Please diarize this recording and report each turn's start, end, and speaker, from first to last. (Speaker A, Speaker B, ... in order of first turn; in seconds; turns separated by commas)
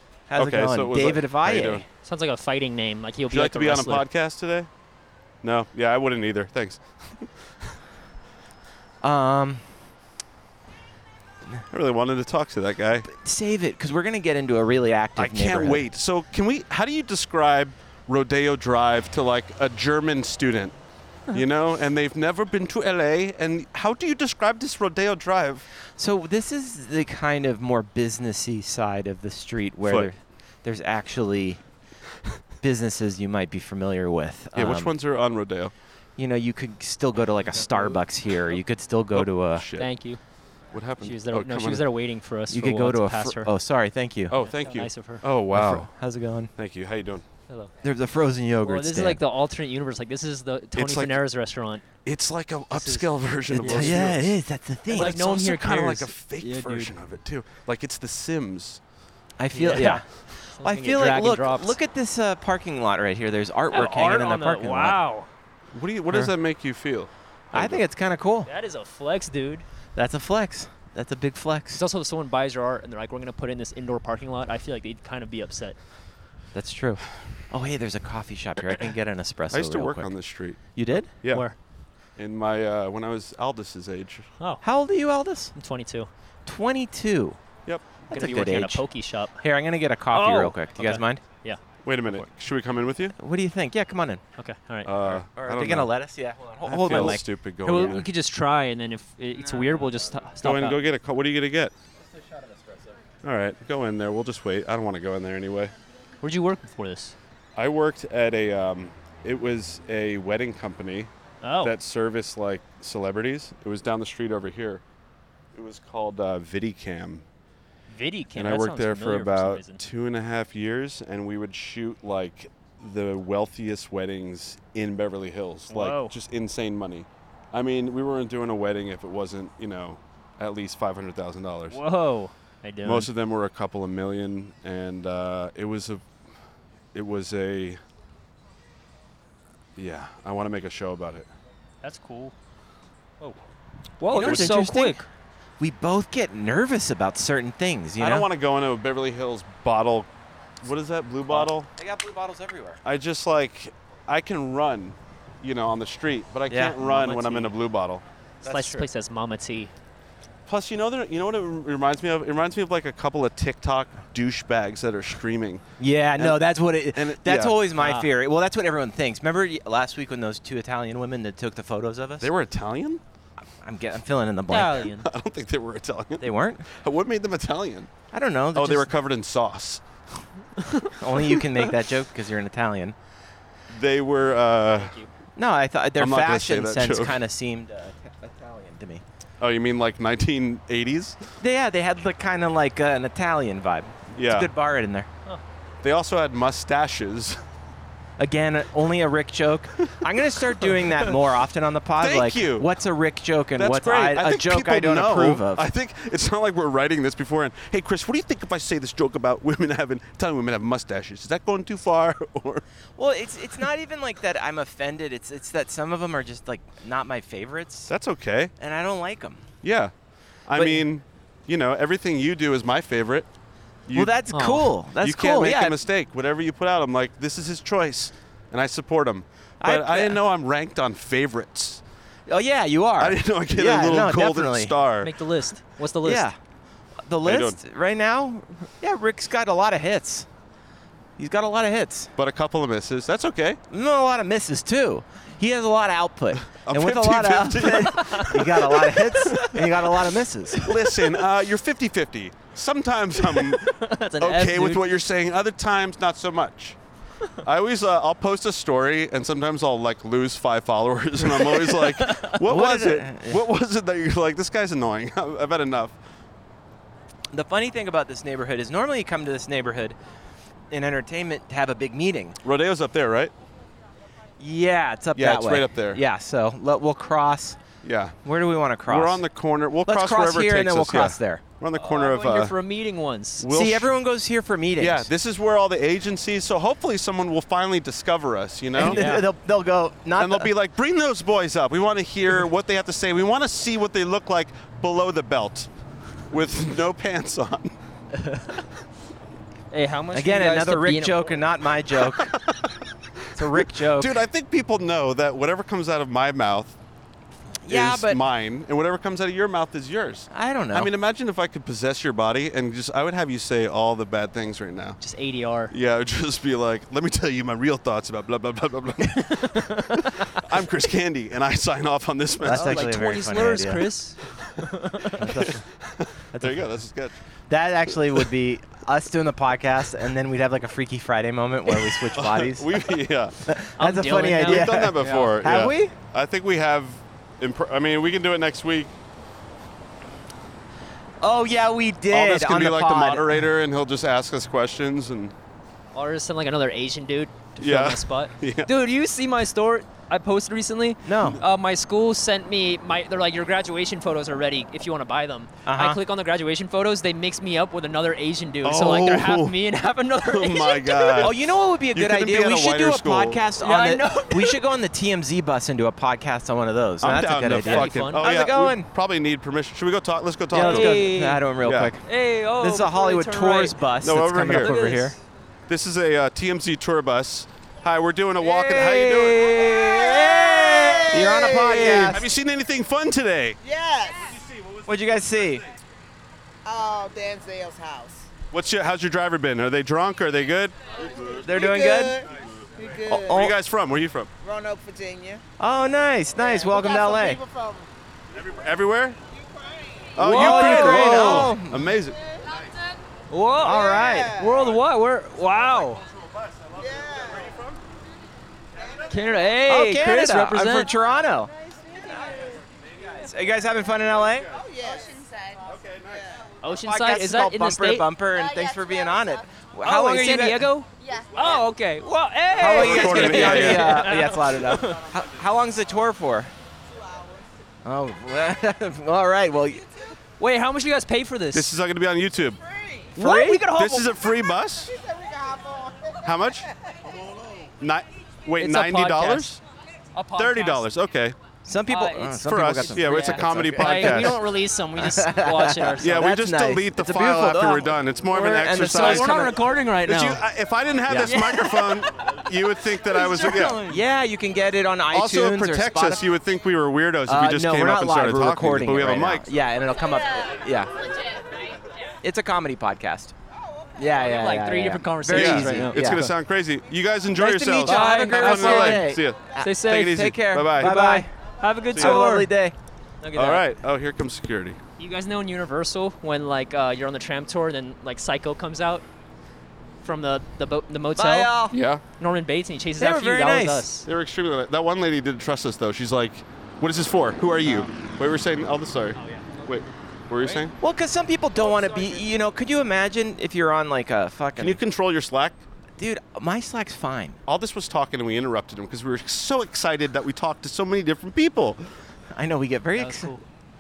Speaker A: 0.3-1.9, Speaker B: 0.4-1.9, Speaker C: 2.0-4.1, Speaker B: 3.3-4.7, Speaker B: 5.4-7.3, Speaker A: 9.0-9.7, Speaker B: 11.7-13.1, Speaker A: 13.1-15.8, Speaker B: 15.2-20.8, Speaker B: 21.3-25.7, Speaker A: 26.0-31.6, Speaker B: 29.8-30.1, Speaker A: 32.6-35.0, Speaker B: 34.5-35.7, Speaker A: 36.2-39.7, Speaker B: 39.1-39.9, Speaker C: 39.8-40.2, Speaker B: 40.7-41.9, Speaker C: 41.0-43.5, Speaker A: 42.5-44.4, Speaker B: 44.3-45.9, Speaker C: 44.4-45.2, Speaker A: 45.5-46.5, Speaker B: 46.6-47.2, Speaker A: 47.8-49.2, Speaker C: 48.6-51.9, Speaker B: 50.7-51.2, Speaker B: 52.0-54.4, Speaker C: 52.7-54.1, Speaker A: 53.5-55.2, Speaker B: 54.9-58.8, Speaker C: 54.9-57.0, Speaker A: 59.4-65.0, Speaker C: 59.5-61.8, Speaker C: 63.7-65.3, Speaker B: 65.7-67.8, Speaker A: 67.5-68.5, Speaker C: 68.5-69.7, Speaker A: 70.0-71.8, Speaker C: 71.8-75.8, Speaker A: 76.5-80.1, Speaker B: 79.5-80.6, Speaker A: 80.8-81.1, Speaker C: 81.3-81.5, Speaker B: 82.2-84.3, Speaker A: 84.6-85.5, Speaker C: 85.6-86.1, Speaker A: 86.5-87.4, Speaker B: 87.7-87.9, Speaker C: 88.1-89.4, Speaker A: 88.1-88.9, Speaker A: 89.4-91.2, Speaker C: 90.1-91.6, Speaker B: 91.8-93.2, Speaker A: 93.2-94.2, Speaker C: 94.4-94.9, Speaker B: 94.8-95.9, Speaker A: 95.0-97.3, Speaker B: 96.6-98.1, Speaker C: 96.9-100.8, Speaker A: 99.3-100.0, Speaker B: 100.4-101.7, Speaker A: 102.2-103.0, Speaker B: 103.2-105.7, Speaker C: 106.2-107.2, Speaker B: 107.6-111.1, Speaker C: 111.4-111.8, Speaker B: 111.6-114.8, Speaker B: 115.5-117.2, Speaker C: 117.9-119.8, Speaker B: 118.3-131.8, Speaker C: 125.7-126.2, Speaker C: 131.7-133.1, Speaker B: 132.8-136.0, Speaker B: 136.9-137.8, Speaker B: 139.8-141.3, Speaker C: 141.8-142.3, Speaker C: 144.0-145.1, Speaker A: 144.1-145.0, Speaker B: 144.1-144.6, Speaker A: 145.6-148.3, Speaker B: 148.0-150.1, Speaker B: 150.6-151.7, Speaker A: 151.3-152.8, Speaker B: 152.8-158.8, Speaker A: 156.5-157.4, Speaker C: 156.9-157.5, Speaker C: 158.4-159.7, Speaker B: 160.5-165.6, Speaker A: 165.8-172.3, Speaker B: 166.2-167.6, Speaker C: 167.8-168.1, Speaker B: 172.2-173.0, Speaker A: 173.6-174.9, Speaker C: 174.5-175.1, Speaker B: 174.9-177.9, Speaker A: 176.2-176.7, Speaker A: 178.1-178.9, Speaker B: 178.5-179.8, Speaker A: 181.0-183.0, Speaker B: 183.7-185.0, Speaker C: 184.7-185.1, Speaker A: 185.4-189.0, Speaker B: 186.0-187.2, Speaker B: 189.4-191.2, Speaker A: 191.4-195.1, Speaker B: 194.2-194.5, Speaker B: 195.8-197.4, Speaker A: 198.2-205.7, Speaker B: 202.0-202.7, Speaker B: 203.6-212.7, Speaker A: 213.0-217.9, Speaker B: 217.9-218.5, Speaker A: 218.6-219.5, Speaker B: 219.6-219.9, Speaker B: 220.5-223.3, Speaker A: 220.5-220.9, Speaker B: 223.9-224.2, Speaker A: 223.9-225.8, Speaker C: 224.3-224.7, Speaker B: 225.0-231.8, Speaker A: 229.6-230.2, Speaker A: 232.3-234.8, Speaker B: 233.0-235.1, Speaker C: 235.0-236.3, Speaker A: 236.0-236.4, Speaker A: 237.1-240.3, Speaker B: 237.2-237.6, Speaker A: 241.2-242.1, Speaker B: 242.2-243.6, Speaker A: 243.7-250.8, Speaker B: 246.7-248.9, Speaker C: 249.2-249.6, Speaker B: 250.6-256.8, Speaker C: 253.3-254.9, Speaker B: 257.4-266.0, Speaker C: 261.4-262.4, Speaker A: 262.4-263.4, Speaker A: 267.3-270.0, Speaker A: 270.7-272.4, Speaker B: 272.4-273.3, Speaker A: 274.4-277.6, Speaker B: 275.1-276.0, Speaker B: 277.8-278.2, Speaker A: 278.2-279.2, Speaker B: 278.9-282.6, Speaker A: 279.9-281.4, Speaker C: 281.8-283.5, Speaker B: 283.4-283.9, Speaker A: 283.5-285.1, Speaker B: 284.8-289.1, Speaker A: 288.8-290.5, Speaker C: 288.8-289.3, Speaker B: 290.2-295.7, Speaker B: 296.3-297.8, Speaker C: 298.2-298.6, Speaker C: 299.7-301.3, Speaker A: 300.1-302.4, Speaker B: 302.2-302.6, Speaker A: 303.3-304.2, Speaker B: 303.5-306.8, Speaker A: 307.6-308.2, Speaker B: 307.7-315.0, Speaker A: 310.3-310.9, Speaker C: 315.0-315.7, Speaker B: 315.7-323.0, Speaker C: 319.3-320.2, Speaker A: 322.4-323.9, Speaker C: 322.5-325.2, Speaker A: 325.2-325.6, Speaker B: 325.2-327.1, Speaker A: 326.3-326.6, Speaker A: 327.5-335.9, Speaker B: 332.1-333.4, Speaker C: 333.8-335.3, Speaker B: 334.4-338.9, Speaker A: 341.2-343.4, Speaker B: 342.1-345.3, Speaker C: 345.9-361.3, Speaker B: 347.6-348.7, Speaker A: 351.0-351.4, Speaker A: 355.7-356.0, Speaker B: 358.6-359.6, Speaker B: 360.2-361.4, Speaker A: 361.2-368.9, Speaker B: 361.9-363.4, Speaker C: 363.6-364.6, Speaker B: 367.0-371.1, Speaker C: 367.5-368.3, Speaker A: 370.5-372.0, Speaker C: 370.5-371.5, Speaker B: 371.6-371.9, Speaker C: 372.0-373.8, Speaker A: 372.6-375.2, Speaker B: 374.0-374.8, Speaker C: 374.6-375.2, Speaker B: 375.7-379.7, Speaker C: 378.4-381.0, Speaker D: 379.8-382.1, Speaker A: 381.1-382.3, Speaker B: 381.8-383.6, Speaker D: 383.6-384.4, Speaker A: 384.9-385.6, Speaker D: 386.6-388.3, Speaker B: 388.5-390.8, Speaker D: 391.0-393.5, Speaker A: 391.4-392.2, Speaker A: 393.1-393.5, Speaker B: 393.1-394.3, Speaker D: 394.4-395.4, Speaker A: 395.6-397.4, Speaker D: 396.4-397.9, Speaker B: 398.4-399.2, Speaker D: 399.3-400.2, Speaker B: 400.2-402.2, Speaker C: 400.2-401.6, Speaker A: 400.2-402.0, Speaker D: 402.1-402.6, Speaker E: 402.5-403.0, Speaker C: 403.3-406.0, Speaker A: 403.6-404.4, Speaker D: 403.6-404.7, Speaker B: 406.3-406.8, Speaker D: 406.8-407.6, Speaker B: 407.3-407.8, Speaker D: 408.8-409.1, Speaker C: 409.1-410.9, Speaker A: 409.6-411.5, Speaker D: 411.4-412.6, Speaker A: 413.1-414.5, Speaker D: 414.4-416.4, Speaker E: 415.2-415.5, Speaker B: 415.7-416.1, Speaker C: 416.6-418.1, Speaker A: 416.7-420.7, Speaker E: 418.3-419.4, Speaker C: 419.8-425.1, Speaker E: 421.0-421.7, Speaker A: 422.5-426.5, Speaker B: 422.6-424.1, Speaker D: 426.8-427.5, Speaker A: 427.8-429.9, Speaker C: 430.4-431.7, Speaker B: 431.5-432.6, Speaker D: 432.6-433.1, Speaker C: 433.2-434.1, Speaker A: 433.2-433.6, Speaker B: 433.2-434.9, Speaker D: 434.8-437.1, Speaker B: 436.2-436.7, Speaker B: 437.8-439.6, Speaker C: 438.6-439.5, Speaker C: 440.1-440.9, Speaker B: 440.4-441.4, Speaker A: 441.6-444.4, Speaker C: 441.9-446.3, Speaker B: 442.4-444.4, Speaker A: 445.0-449.5, Speaker B: 446.0-453.8, Speaker C: 448.8-450.4, Speaker C: 451.1-452.0, Speaker A: 451.1-451.4, Speaker A: 453.1-456.2, Speaker B: 455.1-459.5, Speaker A: 457.3-461.0, Speaker E: 461.0-461.4, Speaker A: 462.2-463.3, Speaker A: 464.0-466.3, Speaker C: 464.1-466.3, Speaker B: 465.3-471.0, Speaker A: 467.3-471.3, Speaker C: 467.8-472.5, Speaker B: 471.9-472.2, Speaker A: 471.9-472.8, Speaker C: 473.2-473.7, Speaker B: 473.3-474.8, Speaker C: 475.0-479.1, Speaker C: 480.0-481.6, Speaker A: 481.1-481.8, Speaker B: 481.7-482.0, Speaker C: 482.2-484.1, Speaker A: 483.0-483.9, Speaker B: 484.1-490.8, Speaker C: 489.2-489.5, Speaker A: 490.8-494.8, Speaker B: 494.6-495.6, Speaker A: 496.0-497.4, Speaker B: 497.5-501.8, Speaker A: 502.3-503.3, Speaker C: 503.0-503.4